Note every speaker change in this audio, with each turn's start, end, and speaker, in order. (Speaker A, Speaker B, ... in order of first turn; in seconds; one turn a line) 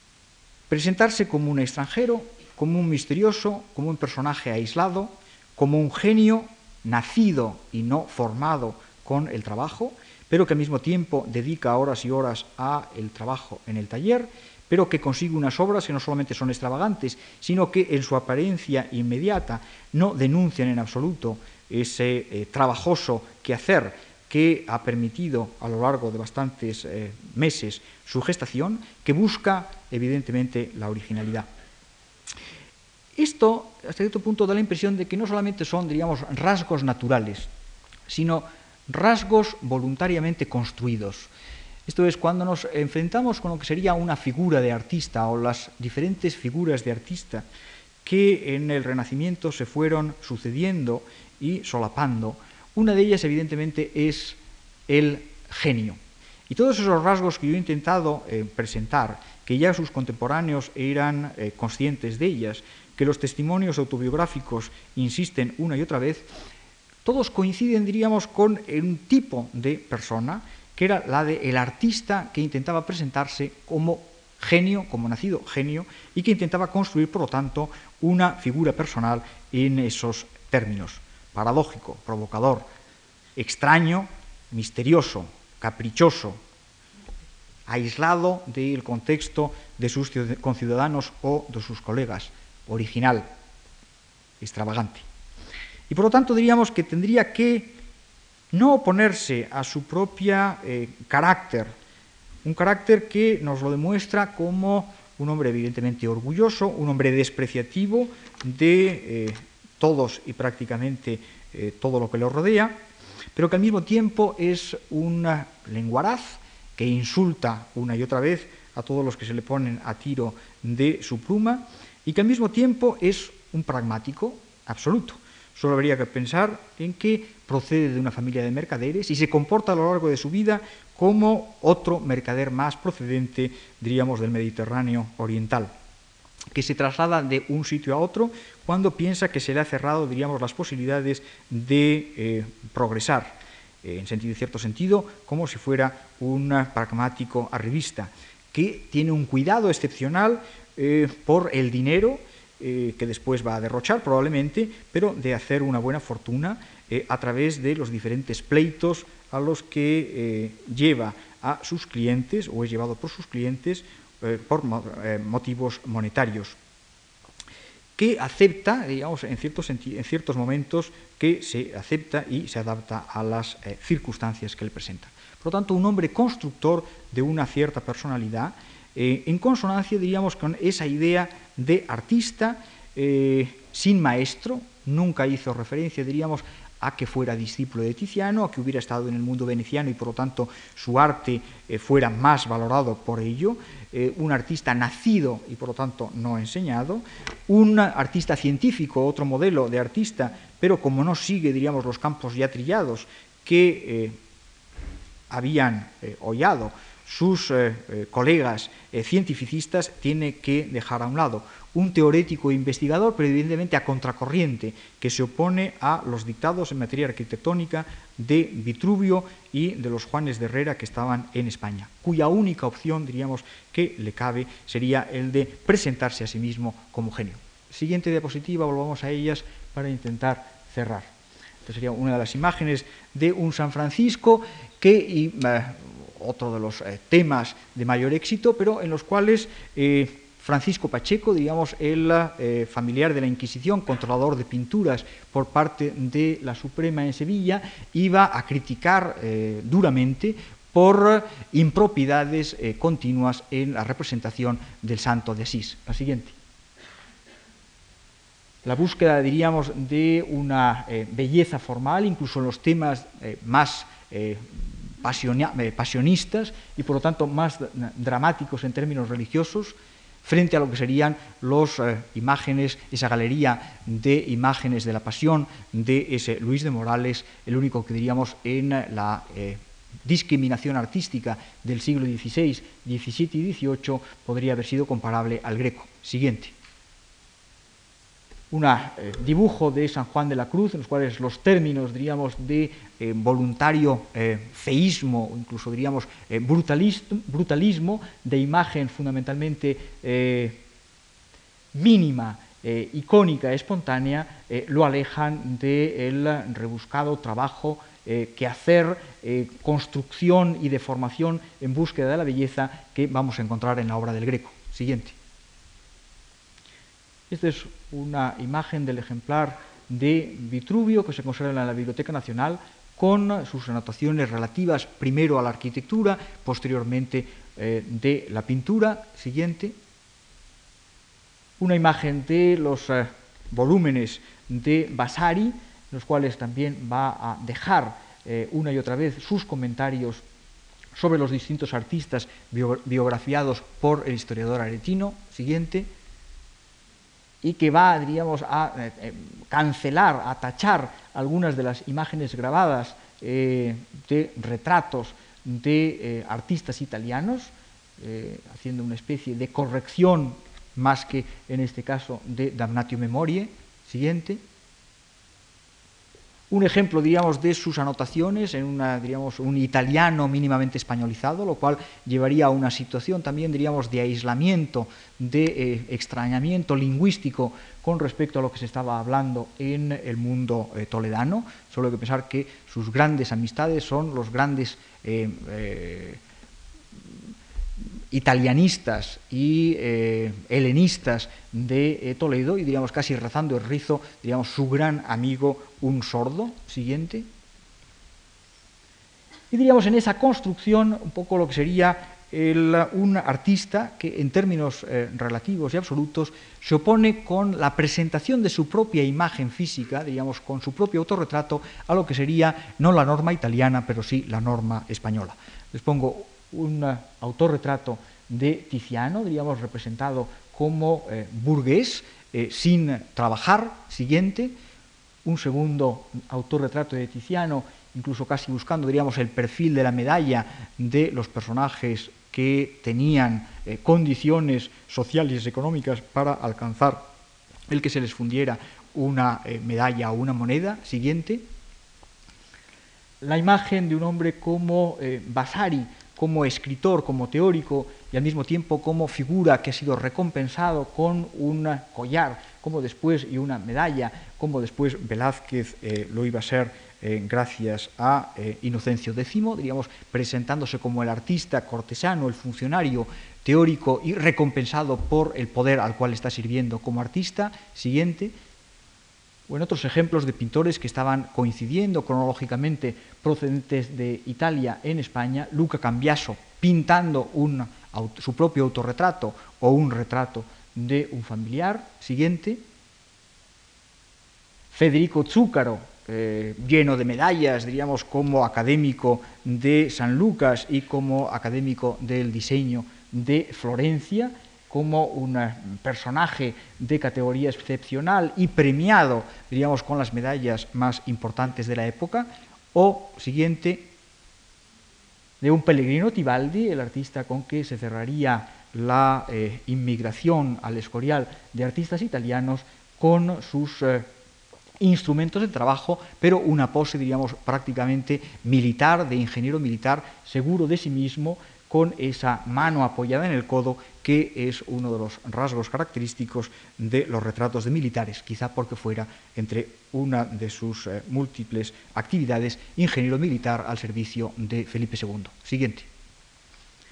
Speaker A: 0.7-31.5
Speaker A: 33.2-37.5
Speaker A: 38.1-41.3
Speaker A: 41.9-47.4
Speaker A: 48.0-66.3
Speaker A: 67.0-82.6
Speaker A: 83.3-86.4
Speaker A: 87.7-93.2
Speaker A: 94.4-95.0
Speaker A: 95.9-97.8
Speaker A: 98.5-101.7
Speaker A: 102.4-112.8
Speaker A: 113.3-135.7
Speaker A: 136.5-166.6
Speaker A: 167.9-204.2
Speaker A: 205.3-231.1
Speaker A: 231.6-256.4
Speaker A: 258.6-286.5
Speaker A: 288.5-300.6
Speaker A: 301.7-315.1
Speaker A: 317.3-329.8
Speaker A: 331.6-340.2
Speaker A: 340.9-345.9
Speaker A: 347.4-364.4
Speaker A: 366.5-386.2
Speaker A: 388.1-397.3
Speaker A: 399.5-424.5
Speaker A: 425.2-437.1
Speaker A: 437.7-441.4
Speaker A: 443.2-468.3
Speaker A: 469.5-482.6
Speaker A: 484.7-503.9
Speaker A: 505.4-514.1
Speaker A: 514.8-535.9